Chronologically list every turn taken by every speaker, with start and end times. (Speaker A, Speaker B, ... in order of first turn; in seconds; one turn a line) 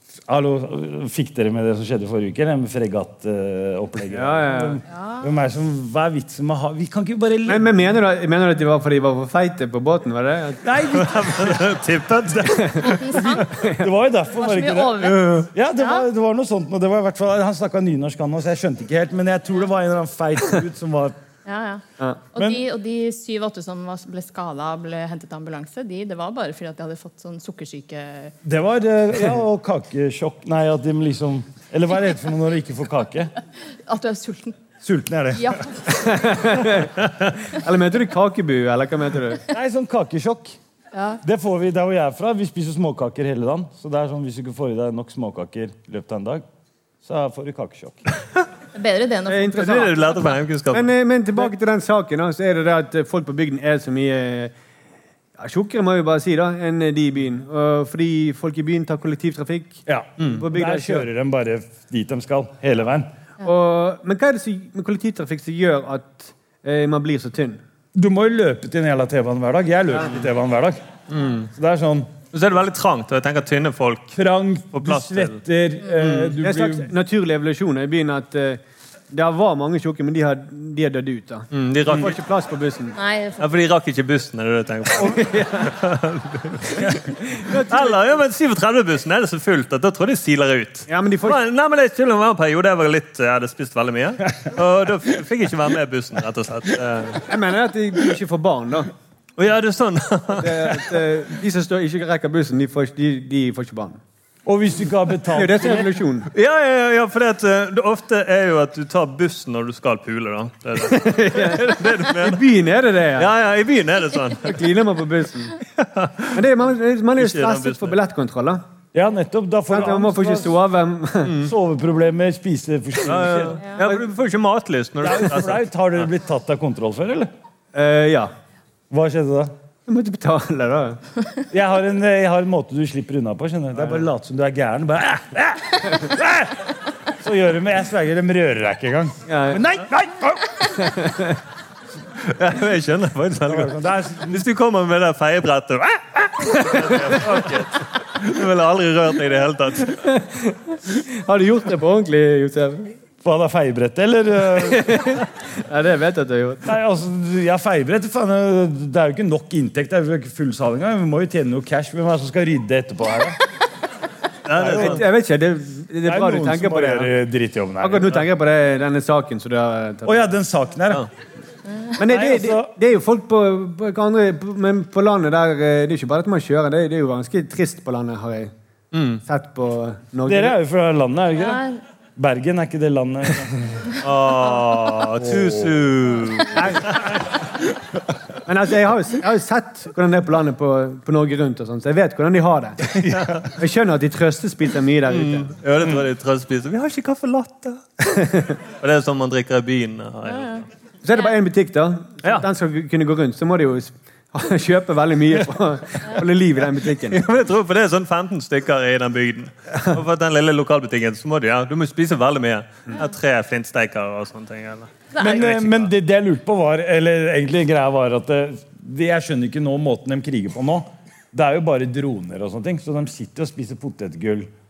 Speaker A: 0.3-7.8
Speaker B: 4.1-4.8
Speaker C: 4.9-5.2
Speaker B: 7.5-10.6
Speaker A: 10.6-21.1
Speaker D: 10.9-12.8
Speaker C: 12.8-13.4
Speaker B: 13.5-13.9
Speaker C: 14.4-16.1
Speaker B: 15.0-15.4
Speaker C: 21.4-28.3
Speaker A: 22.3-22.6
Speaker A: 28.4-33.3
Speaker C: 33.9-34.6
Speaker A: 34.8-35.6
Speaker C: 35.4-35.8
Speaker B: 35.9-39.4
Speaker A: 39.5-40.6
Speaker C: 40.9-41.2
Speaker A: 41.2-46.4
Speaker A: 47.0-48.0
Speaker C: 48.7-49.9
Speaker B: 49.3-49.9
Speaker D: 49.5-50.9
Speaker B: 50.7-54.5
Speaker B: 55.4-61.0
Speaker A: 59.9-63.1
Speaker B: 63.4-67.6
Speaker A: 67.9-70.8
Speaker D: 71.1-71.5
Speaker A: 71.5-72.1
Speaker D: 72.3-74.2
Speaker A: 74.1-76.9
Speaker D: 74.7-75.4
Speaker B: 76.0-83.0
Speaker D: 81.5-82.2
Speaker C: 82.9-83.4
Speaker D: 83.4-87.0
Speaker B: 85.0-85.7
Speaker B: 86.7-88.2
Speaker D: 87.7-97.2
Speaker B: 90.9-91.4
Speaker B: 97.3-98.9
Speaker D: 99.4-101.0
Speaker B: 100.4-104.0
Speaker A: 104.5-106.0
Speaker B: 105.3-106.3
Speaker D: 106.3-112.4
Speaker B: 110.8-113.3
Speaker D: 113.2-114.6
Speaker B: 114.4-115.6
Speaker D: 115.8-116.4
Speaker B: 116.3-118.6
Speaker D: 117.2-118.0
Speaker A: 118.9-120.6
Speaker B: 119.7-121.5
Speaker D: 121.2-121.5
Speaker A: 121.4-123.8
Speaker D: 123.1-125.7
Speaker B: 123.1-124.0
Speaker A: 125.0-127.3
Speaker B: 127.7-128.3
Speaker A: 128.9-129.5
Speaker B: 129.9-131.0
Speaker A: 131.5-136.7
Speaker B: 133.8-134.0
Speaker A: 137.2-140.7
Speaker B: 139.3-139.6
Speaker B: 140.8-141.4
Speaker D: 142.3-143.7
Speaker A: 143.4-144.4
Speaker D: 144.3-150.0
Speaker B: 146.5-147.2
Speaker B: 149.9-152.9
Speaker A: 153.2-155.1
Speaker B: 154.6-156.7
Speaker A: 156.6-163.4
Speaker D: 164.4-165.0
Speaker A: 164.5-165.1
Speaker B: 164.7-167.1
Speaker A: 166.0-168.2
Speaker B: 167.8-170.3
Speaker A: 170.0-171.1
Speaker B: 172.0-178.5
Speaker A: 172.0-172.7
Speaker D: 178.9-179.2
Speaker B: 179.2-180.6
Speaker A: 180.2-181.6
Speaker C: 181.4-181.8
Speaker A: 182.2-183.8
Speaker D: 184.0-187.1
Speaker A: 185.2-185.9
Speaker B: 186.6-187.0
Speaker B: 188.4-192.9
Speaker D: 193.1-193.4
Speaker B: 193.6-195.5
Speaker D: 195.1-197.8
Speaker B: 198.2-198.6
Speaker D: 198.8-200.6
Speaker C: 200.3-200.6
Speaker B: 201.0-207.4
Speaker D: 207.1-215.9
Speaker A: 215.2-224.5